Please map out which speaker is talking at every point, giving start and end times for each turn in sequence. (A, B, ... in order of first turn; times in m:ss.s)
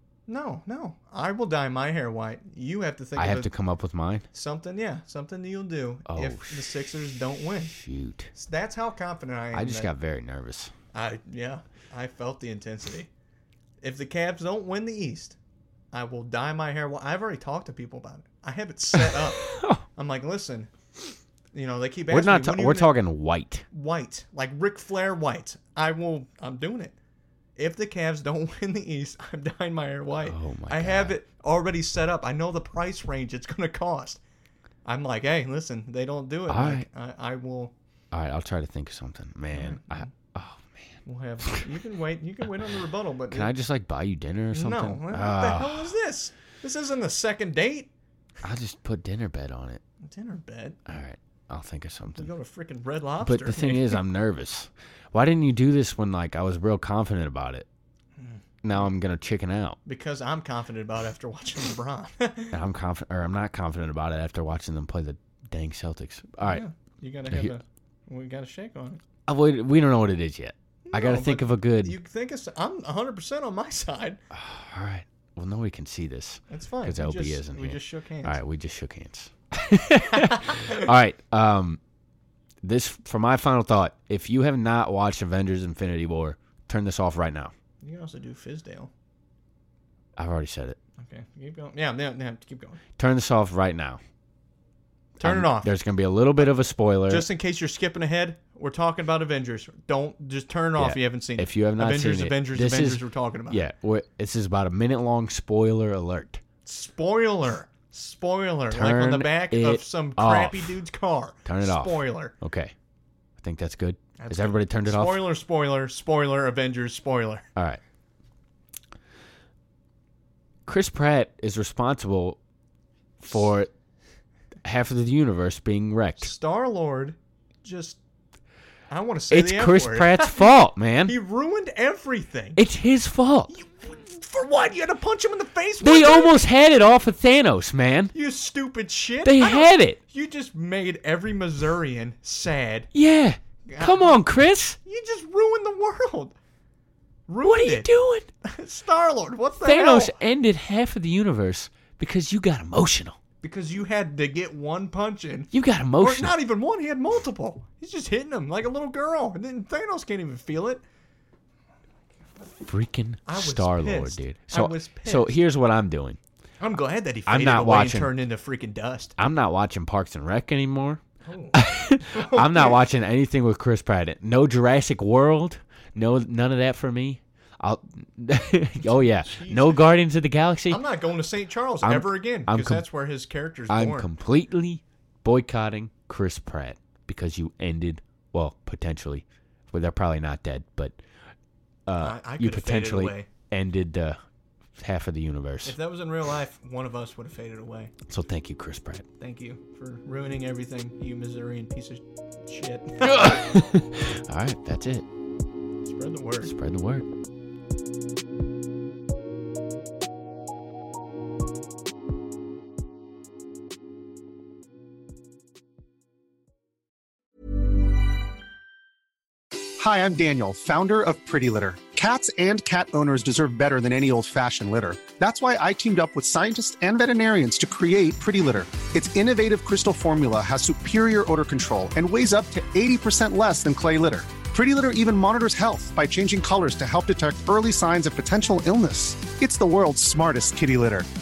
0:00.3-0:03.5 A
0:03.2-0:04.3 B
0:04.3-0:07.8 A
0:06.1-0:06.8 B
0:07.7-0:08.3 B
0:08.3-0:09.9 A
0:09.5-0:10.7 B
0:10.9-0:13.1 A
0:13.8-0:15.4 A
0:15.9-0:20.7 A
0:18.9-0:19.8 B
0:21.5-0:23.0 A
0:22.1-0:23.7 B
0:23.7-0:26.9 A
0:27.6-0:34.2 A
0:30.2-0:31.2 B
0:34.8-0:37.7 A
0:36.5-0:36.9 B
0:38.1-0:41.7 B
0:39.5-0:40.1 A
0:41.0-0:43.5 A
0:43.3-0:45.9 B
0:44.5-0:47.9 A
0:48.4-0:49.8 B
0:50.0-0:50.8 A
0:50.9-0:52.3 B
0:52.2-0:54.0 A
0:53.2-0:57.7 B
0:58.2-0:58.9 A
0:58.6-0:59.8 B
0:59.8-1:02.6 A
1:02.5-1:06.6 B
1:06.4-1:09.0 A
1:09.3-1:12.0 B
1:10.8-1:14.2 A
1:14.3-1:21.8 B
1:16.5-1:18.4 A
1:20.4-1:20.7 A
1:22.6-1:27.5 B
1:27.8-1:28.9 A
1:30.2-1:30.8 B
1:31.0-1:32.8 A
1:33.0-1:34.0 B
1:35.2-1:35.8 A
1:35.2-1:37.3 B
1:37.1-1:43.7 A
1:40.8-1:46.4 B
1:46.6-1:52.3 A
1:48.7-1:50.7 B
1:51.4-1:52.7 B
1:53.4-1:55.3 B
1:54.2-1:57.5 A
2:00.7-2:02.4 B
2:03.2-2:03.7 B
2:04.6-2:06.3 B
2:06.2-2:08.0 A
2:08.9-2:12.6 A
2:09.3-2:11.2 B
2:12.6-2:13.5 B
2:13.5-2:16.4 A
2:15.8-2:18.1 B
2:18.1-2:22.9 A
2:19.2-2:20.0 B
2:22.9-2:24.8 B
2:23.7-2:24.2 A
2:24.8-2:26.3 A
2:27.3-2:27.9 A
2:27.4-2:28.3 B
2:28.4-2:30.2 A
2:29.6-2:33.2 B
2:33.4-2:40.8 A
2:35.5-2:36.4 B
2:42.5-2:46.2 B
2:43.3-2:45.3 A
2:46.6-2:49.1 A
2:47.3-2:48.2 B
2:49.2-2:51.0 B
2:51.2-2:52.8 A
2:51.5-3:00.8 B
2:58.8-2:59.9 A
3:00.7-3:04.1 A
3:01.8-3:02.8 B
3:03.7-3:11.0 B
3:11.9-3:14.2 B
3:12.0-3:13.3 A
3:14.8-3:15.8 B
3:15.6-3:17.9 A
3:18.1-3:19.1 B
3:19.2-3:23.6 A
3:23.0-3:25.1 B
3:25.8-3:26.5 A
3:26.4-3:27.1 B
3:39.8-4:01.1 C